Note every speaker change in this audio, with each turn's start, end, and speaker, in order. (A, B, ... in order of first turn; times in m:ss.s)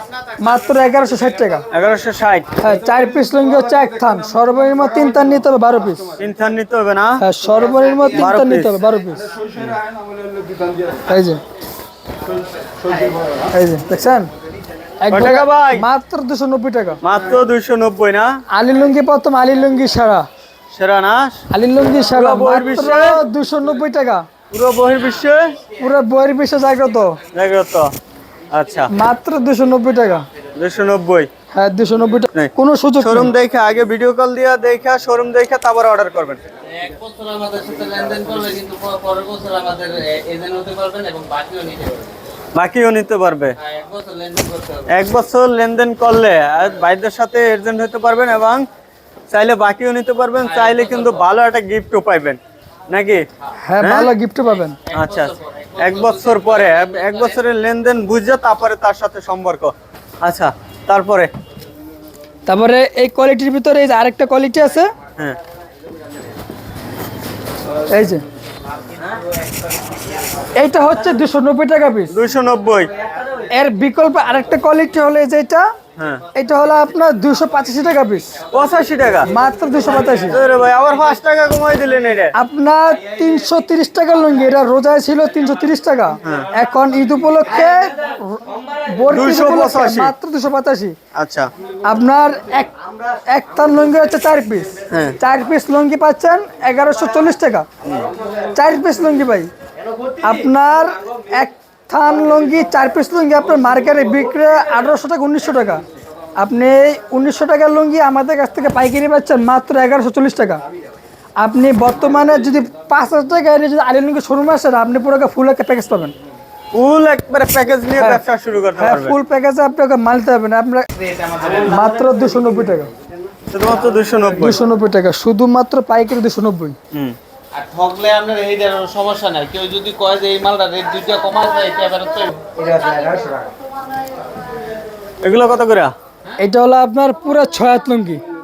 0:00.4-0:01.6 A
0:01.7-0:02.4 B
0:02.6-0:06.1 A
0:06.2-0:07.2 B
0:07.2-0:09.3 A
0:08.1-0:08.8 B
0:09.5-0:09.8 B
0:11.0-0:11.4 A
0:13.5-0:14.3 A
0:15.0-0:17.0 A
0:15.1-0:15.8 B
0:17.0-0:18.3 B
0:18.5-0:20.2 A
0:20.7-0:21.4 B
0:21.5-0:24.2 A
0:22.0-0:23.2 B
0:24.5-0:25.5 B
0:25.8-0:27.2 A
0:27.3-0:27.9 B
0:28.5-0:28.9 B
0:28.9-0:30.2 A
0:30.6-0:31.3 B
0:31.5-0:33.3 A
0:32.3-0:36.4 B
0:36.7-0:42.2 C
0:42.5-0:43.5 B
0:43.7-0:44.8 C
0:44.9-0:48.6 B
0:49.3-0:53.2 B
0:53.7-0:54.8 A
0:53.8-0:54.1 B
0:54.9-1:01.3 B
1:02.5-1:04.9 A
1:07.9-1:08.2 A
1:10.6-1:12.1 A
1:12.1-1:12.9 B
1:13.5-1:15.6 A
1:16.0-1:16.2 B
1:16.3-1:18.4 A
1:18.5-1:19.3 B
1:19.3-1:20.4 A
1:20.3-1:22.3 B
1:22.3-1:31.0 A
1:26.2-1:26.5 B
1:29.1-1:30.1 B
1:31.1-1:31.5 B
1:31.8-1:32.7 A
1:33.3-1:37.7 A
1:34.9-1:35.2 B
1:38.5-1:39.5 A
1:40.2-1:45.8 A
1:46.4-1:50.6 A
1:51.4-1:56.1 A
1:56.7-1:59.2 B
1:58.0-1:58.2 A
1:58.8-2:00.9 A
2:01.5-2:02.9 A
2:03.5-2:04.6 B
2:04.4-2:06.8 A
2:07.6-2:13.3 C
2:15.2-2:15.9 B
2:16.4-2:18.2 A